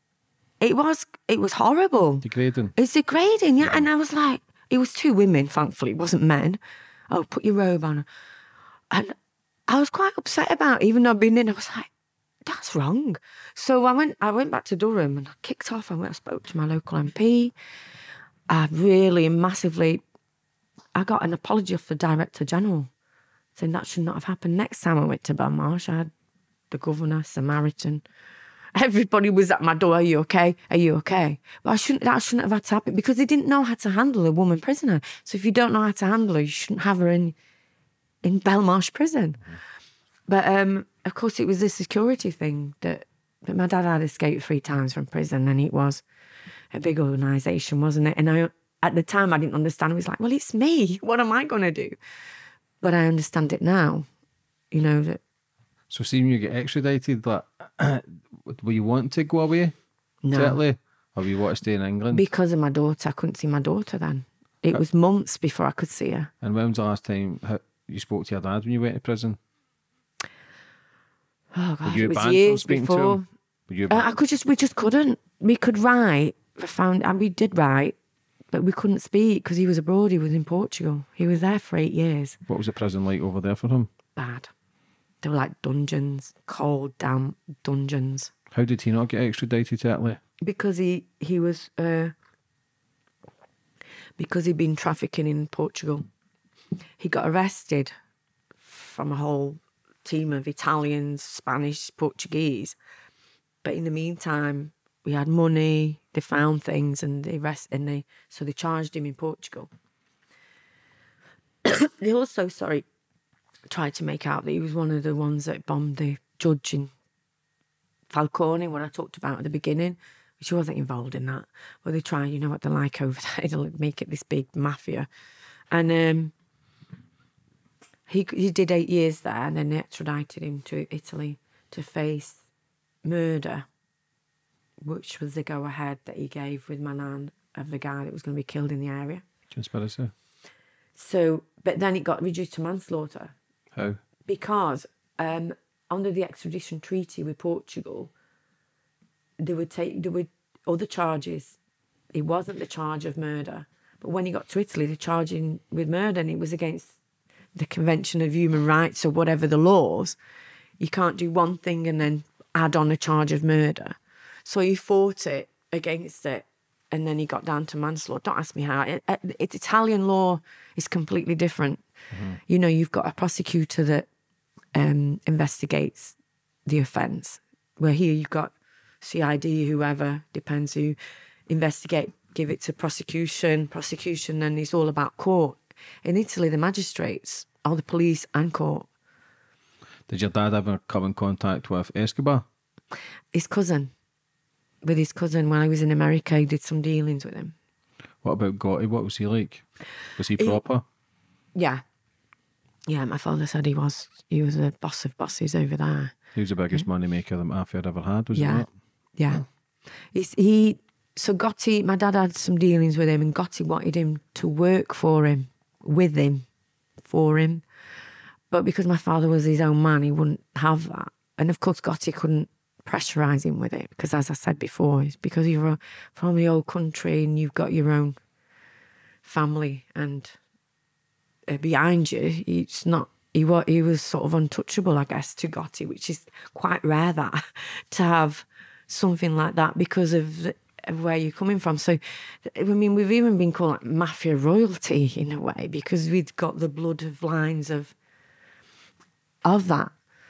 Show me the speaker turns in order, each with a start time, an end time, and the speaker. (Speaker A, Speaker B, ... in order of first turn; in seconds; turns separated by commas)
Speaker A: 0.6-6.6, Speaker B: 2.2-2.7, Speaker A: 7.1-8.1, Speaker A: 8.9-9.2, Speaker A: 9.7-11.9, Speaker A: 12.5-17.5, Speaker A: 18.5-20.0, Speaker A: 20.9-22.9, Speaker A: 23.6-26.1, Speaker A: 26.7-28.1, Speaker A: 28.8-37.4, Speaker A: 38.2-39.4, Speaker A: 40.3-46.0, Speaker A: 46.7-52.0, Speaker A: 52.8-54.1, Speaker A: 54.7-55.2, Speaker B: 55.9-59.7, Speaker A: 60.2-60.6, Speaker B: 60.3-62.2, Speaker A: 62.1-66.3, Speaker B: 66.4-69.4, Speaker A: 71.5-73.3, Speaker B: 71.8-74.2, Speaker A: 73.9-78.0, Speaker A: 78.5-82.4, Speaker B: 82.5-83.9, Speaker A: 84.2-84.5, Speaker A: 85.2-88.3, Speaker B: 88.5-90.2, Speaker A: 90.4-92.1, Speaker A: 94.2-96.1, Speaker A: 97.0-97.9, Speaker A: 98.6-102.8, Speaker A: 103.6-109.7, Speaker A: 111.6-112.9, Speaker A: 113.7-116.9, Speaker A: 118.1-125.1, Speaker A: 125.7-126.3, Speaker A: 128.1-132.4, Speaker A: 133.1-133.7, Speaker A: 134.8-139.2, Speaker B: 139.5-140.1, Speaker A: 141.0-143.3, Speaker A: 144.3-148.1, Speaker A: 149.4-151.6, Speaker A: 152.1-157.0, Speaker A: 157.6-160.2, Speaker A: 160.8-171.8, Speaker B: 172.1-172.4, Speaker A: 172.5-174.1, Speaker A: 174.8-181.0, Speaker A: 181.5-188.9, Speaker B: 190.1-192.5, Speaker A: 193.3-193.9, Speaker A: 194.8-197.6, Speaker B: 198.2-199.6, Speaker B: 200.2-200.8, Speaker A: 201.6-201.8, Speaker A: 202.9-206.2, Speaker B: 206.3-208.7, Speaker A: 208.3-208.7, Speaker A: 209.2-209.4, Speaker A: 210.1-216.5, Speaker A: 217.0-217.7, Speaker A: 218.5-228.2, Speaker A: 229.2-230.3, Speaker A: 231.5-247.9, Speaker A: 249.4-249.9